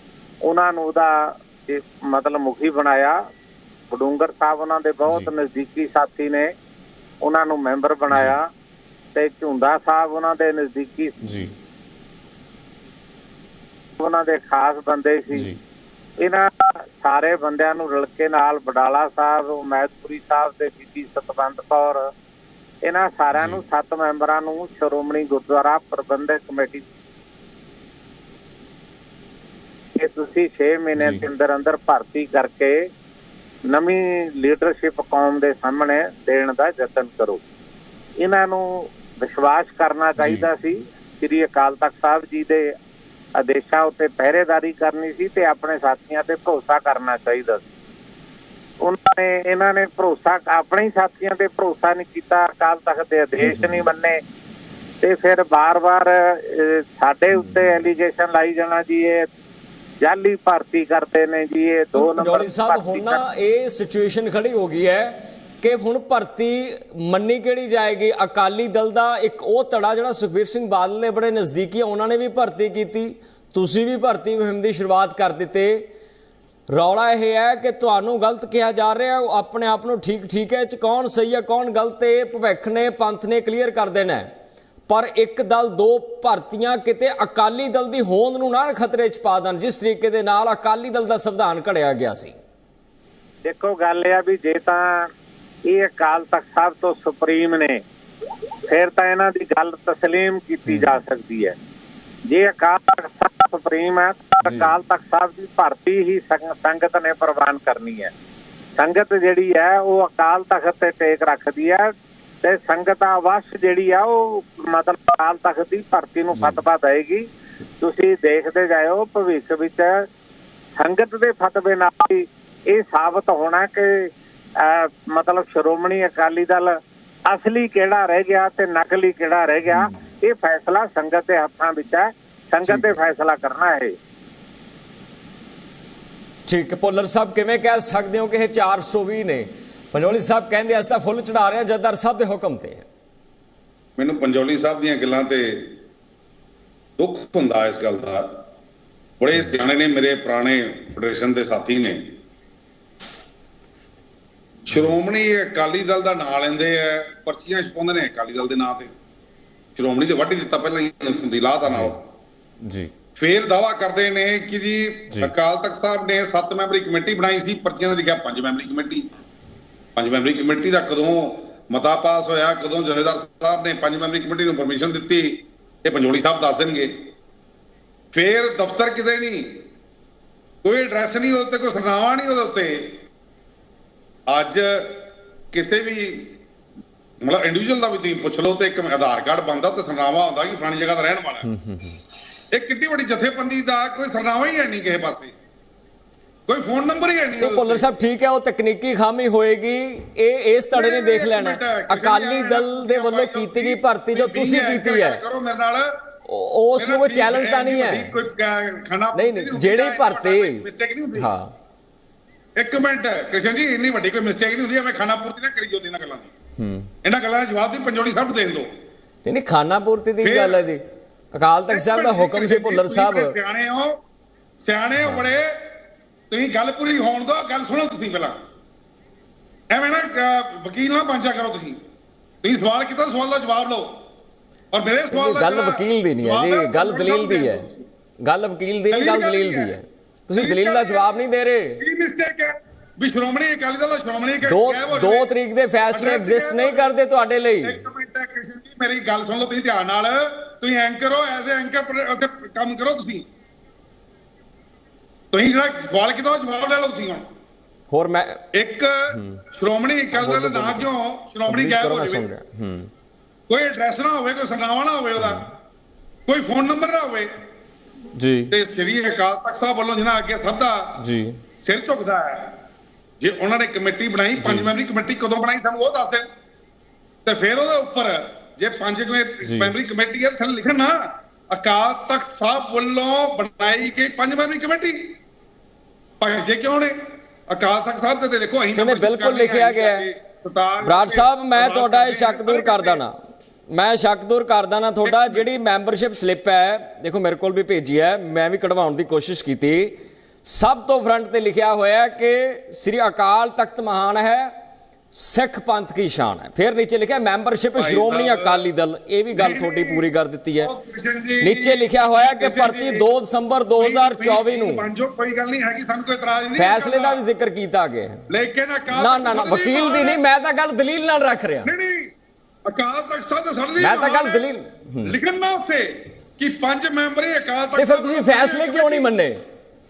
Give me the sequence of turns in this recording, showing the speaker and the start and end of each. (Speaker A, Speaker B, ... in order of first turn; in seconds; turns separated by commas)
Speaker A: 0.4-3.2, Speaker A: 3.9-6.5, Speaker A: 7.2-8.5, Speaker B: 8.1-8.4, Speaker A: 9.2-11.2, Speaker B: 11.2-11.5, Speaker A: 14.0-15.5, Speaker B: 15.3-15.6, Speaker A: 16.2-22.1, Speaker A: 22.8-26.8, Speaker B: 23.4-23.6, Speaker A: 30.0-32.9, Speaker B: 31.0-31.2, Speaker A: 33.7-37.4, Speaker A: 38.2-42.8, Speaker B: 40.2-40.5, Speaker A: 43.4-47.6, Speaker A: 48.8-54.2, Speaker B: 53.5-53.8, Speaker A: 55.0-59.3, Speaker B: 57.4-57.8, Speaker A: 60.0-63.2, Speaker B: 61.9-75.9, Speaker B: 76.7-84.3, Speaker B: 84.9-92.4, Speaker A: 93.5-95.1, Speaker A: 95.7-97.8, Speaker A: 98.7-101.6, Speaker B: 100.7-101.0, Speaker A: 102.3-108.1, Speaker B: 104.5-104.7, Speaker A: 108.8-117.3, Speaker A: 117.8-120.1, Speaker A: 120.8-133.9, Speaker B: 132.7-132.9, Speaker B: 136.5-142.8, Speaker C: 144.0-145.8, Speaker C: 147.0-148.3, Speaker C: 149.2-152.2, Speaker C: 154.7-158.9, Speaker C: 159.8-162.0, Speaker B: 161.7-162.0, Speaker B: 162.6-162.9, Speaker C: 163.2-169.1, Speaker C: 170.0-177.1, Speaker C: 178.1-179.6, Speaker C: 180.6-183.0, Speaker C: 184.3-186.3, Speaker C: 187.2-191.5, Speaker B: 191.4-192.0, Speaker C: 192.5-195.3, Speaker C: 196.5-197.8, Speaker B: 197.4-205.2, Speaker C: 200.7-205.9, Speaker B: 206.3-208.1, Speaker C: 206.8-211.3, Speaker B: 209.2-211.5, Speaker C: 212.6-216.3, Speaker B: 216.6-216.9, Speaker C: 217.0-218.7, Speaker B: 219.2-220.8, Speaker C: 220.2-220.7, Speaker B: 221.3-223.4, Speaker C: 221.7-224.0, Speaker C: 224.6-225.7, Speaker C: 226.3-228.4, Speaker C: 229.7-231.8, Speaker C: 232.4-234.0, Speaker C: 234.7-237.9, Speaker B: 235.1-237.7, Speaker B: 238.2-241.8, Speaker C: 238.9-239.7, Speaker C: 240.3-241.1, Speaker C: 241.8-245.3, Speaker B: 244.5-247.8, Speaker C: 245.9-246.9, Speaker C: 247.6-253.3, Speaker C: 255.3-257.3, Speaker B: 257.9-258.4, Speaker C: 258.5-262.3, Speaker B: 259.1-259.4, Speaker B: 260.1-260.9, Speaker B: 261.5-262.9, Speaker C: 263.5-265.5, Speaker B: 265.2-265.5, Speaker C: 266.3-267.3, Speaker B: 268.2-268.5, Speaker C: 268.5-271.0, Speaker B: 271.0-271.4, Speaker C: 271.6-272.6, Speaker C: 273.2-276.3, Speaker B: 274.4-274.7, Speaker C: 277.2-285.2, Speaker B: 279.4-279.7, Speaker C: 286.2-293.0, Speaker B: 288.8-290.1, Speaker B: 290.8-293.1, Speaker B: 293.7-304.5, Speaker C: 295.1-295.5, Speaker B: 305.1-310.7, Speaker C: 307.8-308.6, Speaker C: 309.3-310.1, Speaker C: 310.6-313.1, Speaker B: 311.4-314.8, Speaker C: 313.8-317.2, Speaker B: 316.6-318.2, Speaker C: 318.3-320.2, Speaker B: 318.9-321.7, Speaker C: 321.6-322.1, Speaker C: 322.7-324.4, Speaker B: 323.8-325.1, Speaker C: 325.0-329.1, Speaker B: 327.8-329.4